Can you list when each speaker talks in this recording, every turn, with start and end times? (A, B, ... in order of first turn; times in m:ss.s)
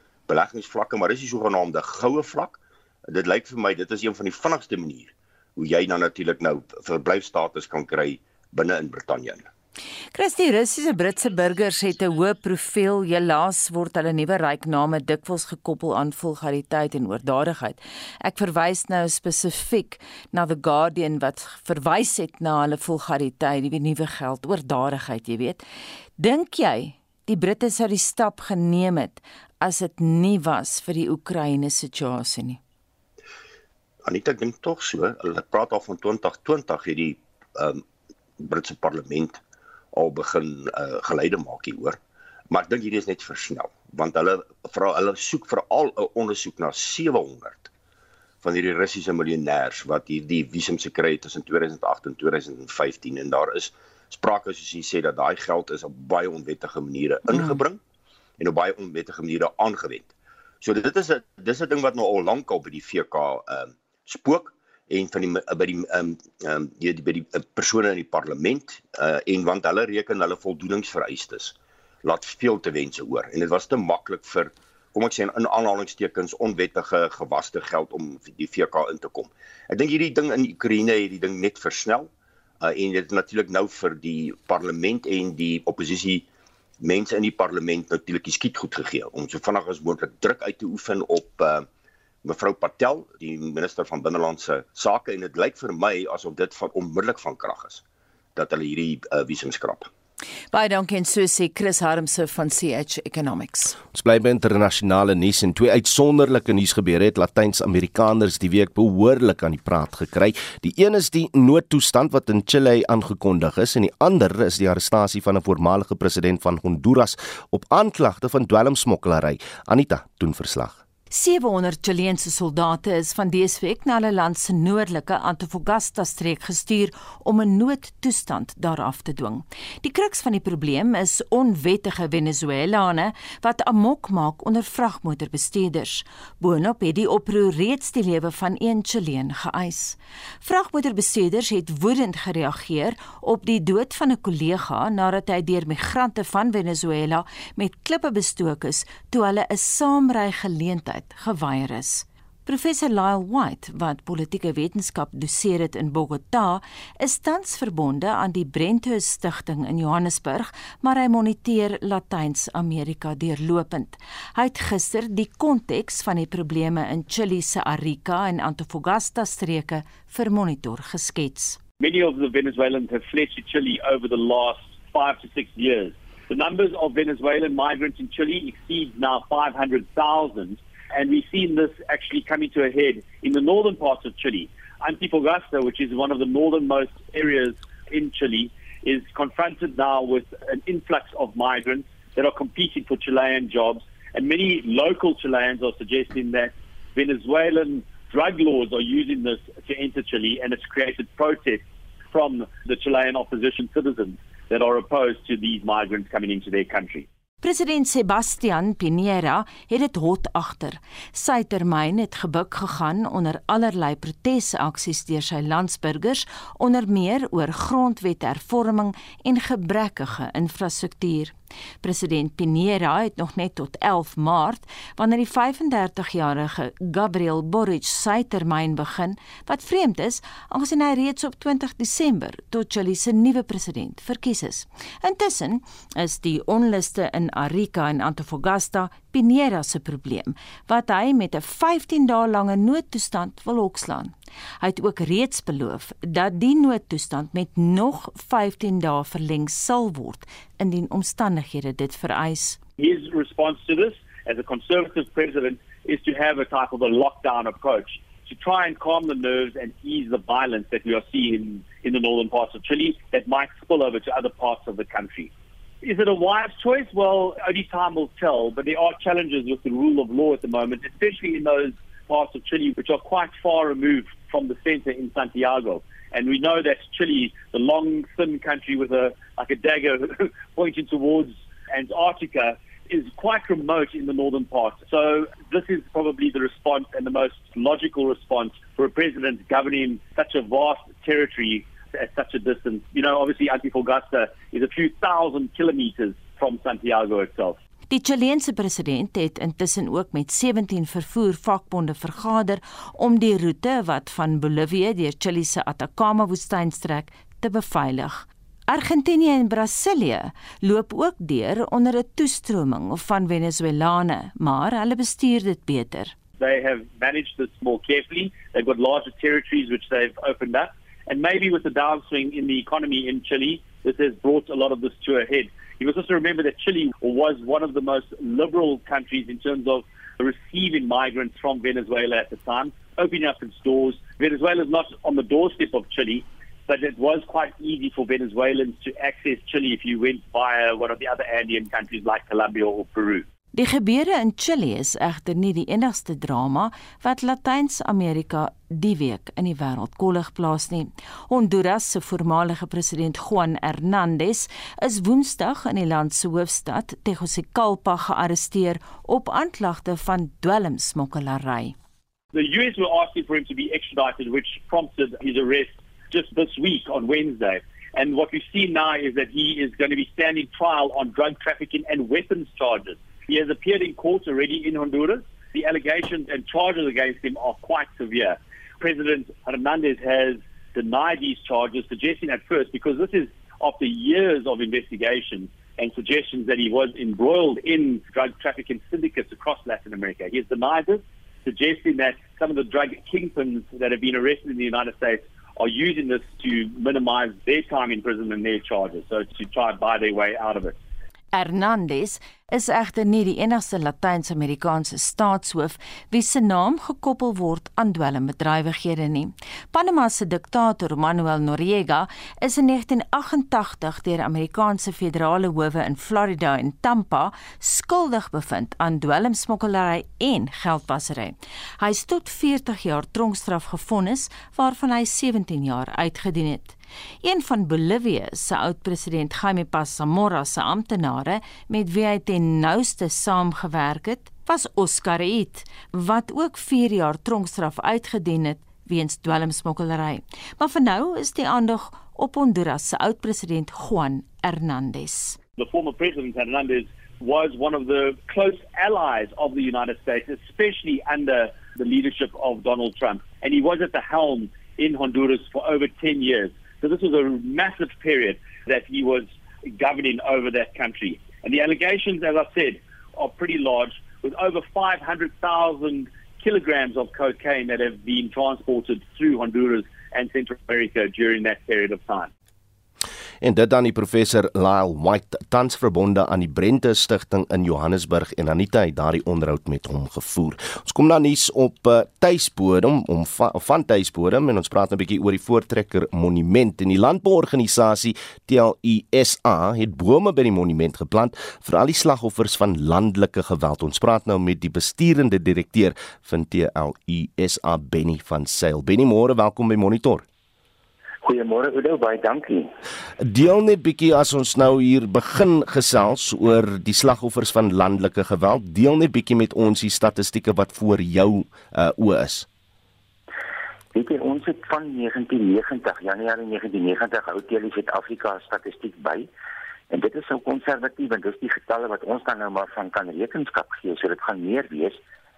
0:00.3-0:09.4 A
0:10.1-0:25.6 B
0:26.2-0:32.6 B
0:34.0-0:37.8 A
0:38.4-0:39.4 A
0:39.9-0:42.0 A
0:42.5-0:47.7 A
0:48.4-0:57.8 A
0:58.4-1:00.1 A
1:00.6-1:22.1 A
1:22.6-1:26.2 A
1:26.8-1:31.7 A
1:32.2-1:37.8 A
1:38.3-1:39.9 A
1:40.5-1:43.8 B
1:43.9-2:00.8 C
2:01.1-2:51.6 B
2:51.8-3:27.0 D
3:27.4-4:12.6 B
4:12.8-4:25.3 D
4:25.8-4:57.6 D
4:57.9-5:16.1 B
5:16.4-5:43.2 D
5:43.5-6:01.7 B
6:02.3-6:40.8 D
6:41.3-7:25.4 B
7:25.6-7:52.3 D
7:53.4-8:20.2 C
8:21.2-8:22.7 E
8:23.2-8:32.5 C
8:33.9-8:39.3 E
8:39.9-8:45.0 E